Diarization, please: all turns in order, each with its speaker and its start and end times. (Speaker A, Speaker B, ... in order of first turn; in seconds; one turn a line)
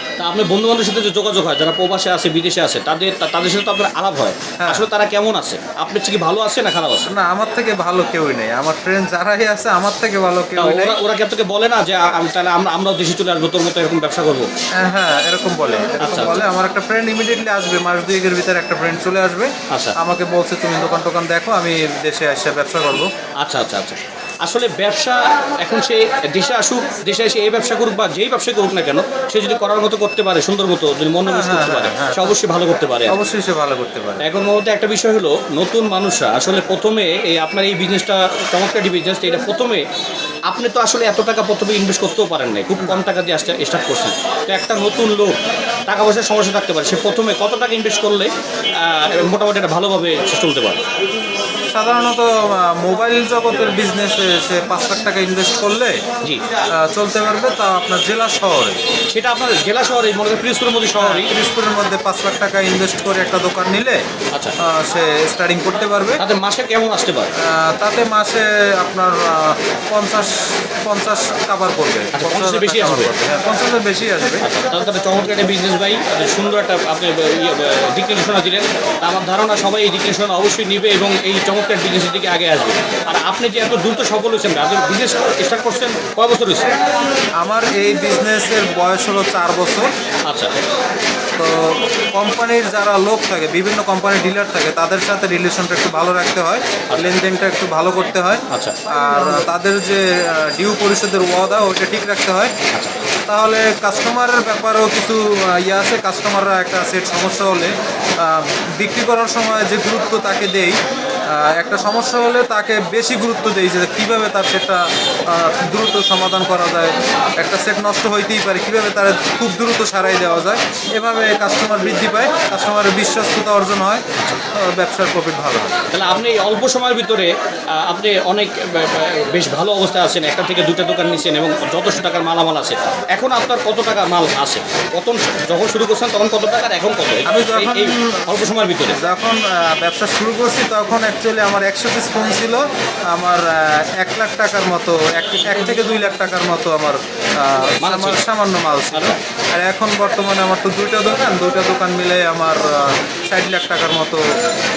Speaker A: 0.2-7.1
Speaker B: 4.6-4.8
Speaker B: 7.1-11.0
Speaker A: 10.6-14.5
Speaker B: 14.8-23.1
Speaker A: 16.0-16.4
Speaker A: 19.7-19.9
Speaker A: 23.4-33.2
Speaker B: 31.2-32.4
Speaker B: 33.1-34.3
Speaker A: 34.2-39.8
Speaker A: 40.5-50.8
Speaker B: 42.8-43.0
Speaker B: 51.7-56.0
Speaker B: 56.8-58.8
Speaker A: 59.1-61.3
Speaker B: 60.9-64.0
Speaker B: 64.6-66.2
Speaker A: 66.2-67.3
Speaker B: 67.3-74.5
Speaker A: 72.1-73.1
Speaker A: 74.4-86.7
Speaker B: 87.4-89.9
Speaker A: 90.3-90.5
Speaker B: 91.4-102.5
Speaker A: 98.5-98.8
Speaker B: 103.3-125.9
Speaker A: 125.9-139.0
Speaker B: 137.2-138.4
Speaker B: 138.9-154.4
Speaker A: 147.8-148.2